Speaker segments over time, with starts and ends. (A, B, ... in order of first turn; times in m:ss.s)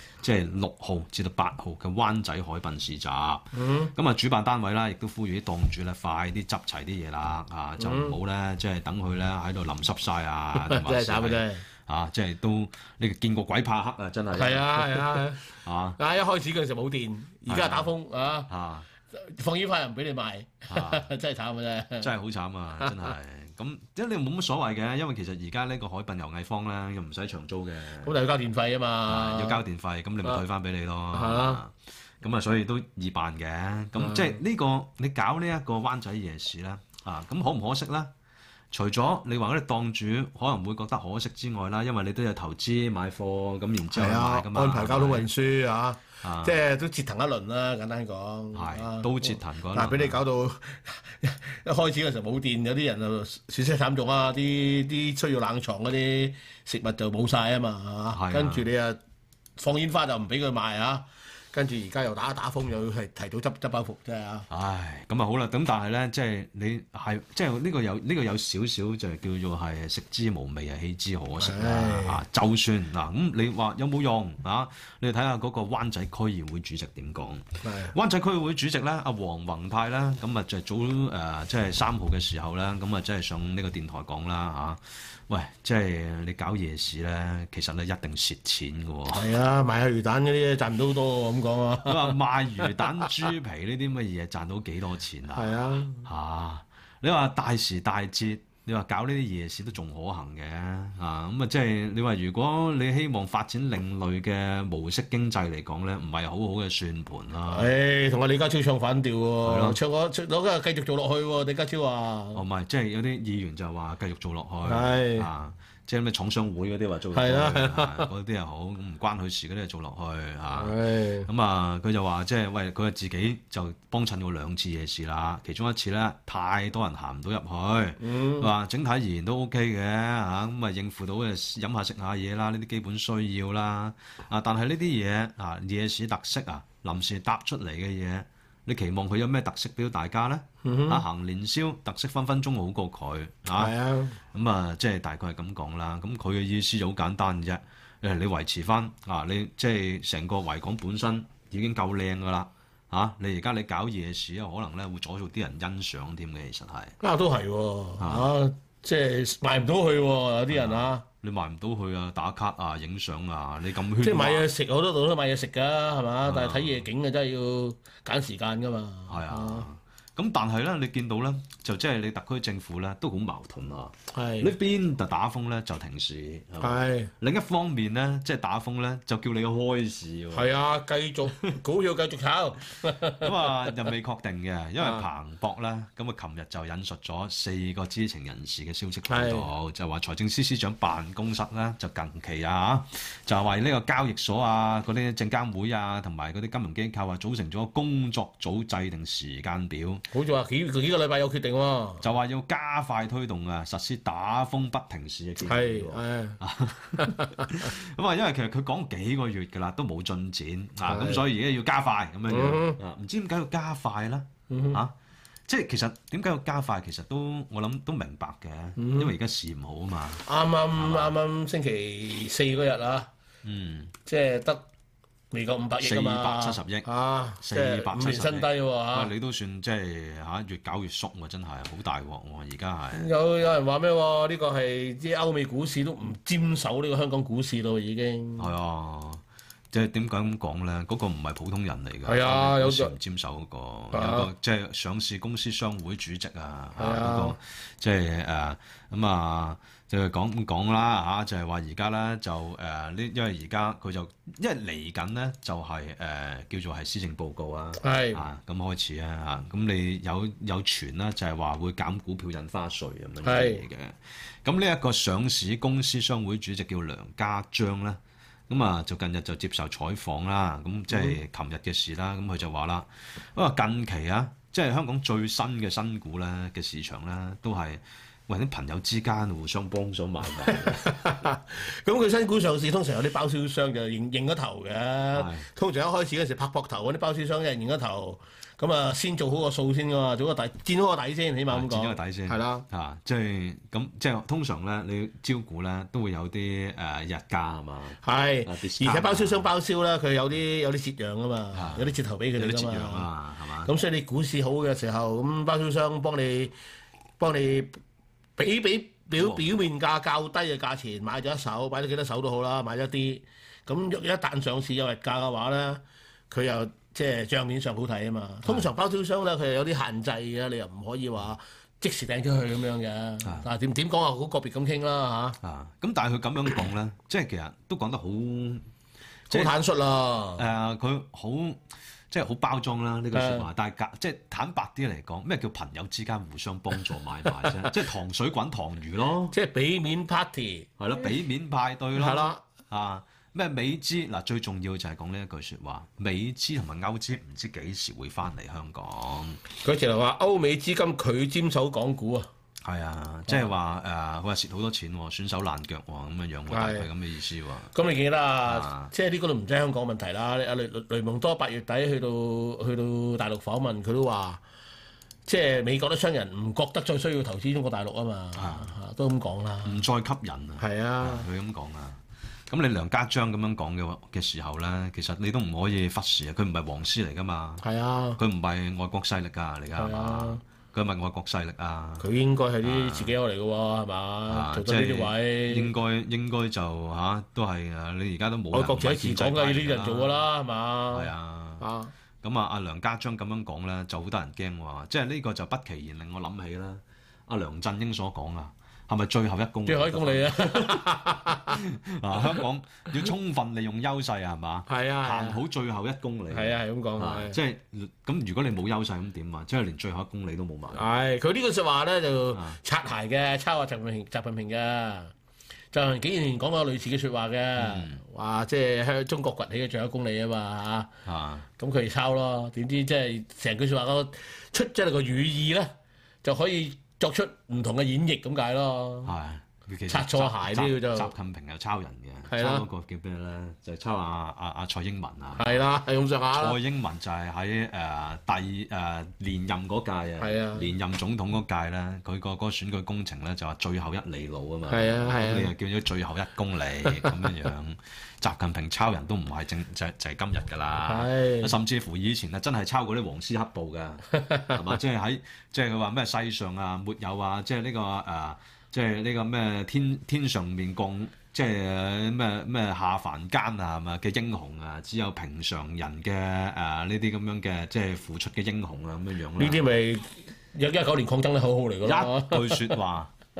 0:00.2-0:16.0 A
0:03.5-0:03.9 B
0:07.8-0:08.2 B
0:10.6-0:11.6 B
0:14.3-0:18.5 B
0:17.5-0:17.9 A
0:18.5-0:18.9 A
0:19.1-0:22.1 B
0:20.7-0:21.1 A
0:22.0-0:28.1 A
0:22.8-0:23.1 B
0:28.0-0:29.6 B
0:29.1-0:38.1 A
0:31.1-0:31.6 B
0:34.0-0:34.4 B
0:38.7-0:45.3 A
0:43.9-0:59.0 B
0:46.2-0:46.6 A
0:48.5-0:50.2 A
0:58.1-0:58.6 A
0:59.6-1:04.5 B
1:04.5-1:29.3 A
1:11.4-1:12.2 B
1:17.6-1:17.9 B
1:29.1-1:33.1 B
1:31.8-1:47.7 A
1:35.3-1:36.1 B
1:47.5-1:52.4 B
1:49.4-1:49.8 A
1:52.3-2:36.9 A
1:54.6-1:55.3 B
1:57.1-1:58.1 B
2:00.5-2:01.3 B
2:08.0-2:08.5 B
2:20.6-2:21.0 B
2:23.6-2:24.2 B
2:37.0-2:41.0 B
2:38.0-2:38.3 A
2:40.5-2:44.5 A
2:44.0-2:49.7 B
2:46.2-2:46.8 A
2:49.1-3:00.5 A
2:54.1-2:54.5 B
2:56.6-2:57.1 B
3:00.3-3:03.8 B
3:03.2-3:20.0 A
3:09.1-3:09.5 B
3:20.1-3:22.0 B
3:22.0-3:34.9 A
3:25.4-3:26.4 B
3:27.0-3:27.7 B
3:30.8-3:31.2 B
3:32.3-3:32.8 B
3:34.5-3:34.8 B
3:35.5-3:40.2 A
3:38.8-3:39.1 B
3:40.2-3:43.1 B
3:40.8-3:41.2 A
3:43.4-3:43.9 A
3:44.0-3:44.6 B
3:45.3-3:49.1 B
3:45.8-3:46.9 A
3:47.4-3:53.1 A
3:52.9-3:58.5 B
3:58.4-4:40.9 A
4:02.0-4:02.9 B
4:03.9-4:04.3 B
4:06.8-4:07.4 B
4:17.8-4:18.2 B
4:23.2-4:23.6 B
4:30.9-4:31.2 B
4:40.4-4:52.6 B
4:45.1-4:45.5 A
4:51.5-4:59.5 A
4:58.0-5:03.1 B
5:01.5-5:03.7 A
5:03.6-5:06.5 B
5:07.2-5:07.8 B
5:08.4-5:25.4 B
5:09.2-5:09.5 A
5:25.4-5:28.7 A
5:29.3-5:29.5 A
5:29.3-5:30.4 B
5:30.4-5:39.3 A
5:33.1-5:33.5 B
5:39.3-5:41.1 B
5:40.8-5:49.4 A
5:41.9-5:42.4 B
5:49.6-5:52.3 B
5:52.6-5:57.7 A
5:56.5-5:56.9 B
5:57.7-6:04.4 B
5:58.4-5:58.9 A
6:05.2-6:09.8 B
6:08.4-6:08.7 A
6:09.6-6:17.6 A
6:10.6-6:11.3 B
6:17.6-6:18.2 B
6:18.2-6:22.0 A
6:19.8-6:20.4 B
6:22.0-6:25.7 B
6:22.6-6:23.1 A
6:24.3-6:30.2 A
6:28.5-6:31.9 B
6:30.9-6:31.6 A
6:32.2-6:50.8 A
6:39.6-6:41.6 B
6:44.7-6:45.4 B
6:46.3-6:47.4 B
6:50.7-6:55.1 B
6:52.3-6:52.6 A
6:55.7-7:00.9 B
6:57.6-6:58.0 A
7:01.0-7:01.5 A
7:01.6-7:05.7 B
7:06.2-7:09.1 B
7:09.0-7:15.6 A
7:09.9-7:11.1 B
7:12.3-7:12.6 B
7:15.4-7:16.6 B
7:16.3-7:49.6 A
7:20.2-7:20.7 B
7:24.7-7:25.5 B
7:27.0-7:27.3 B
7:30.8-7:31.5 B
7:34.1-7:34.6 B
7:49.4-7:52.8 B
7:51.8-7:53.1 A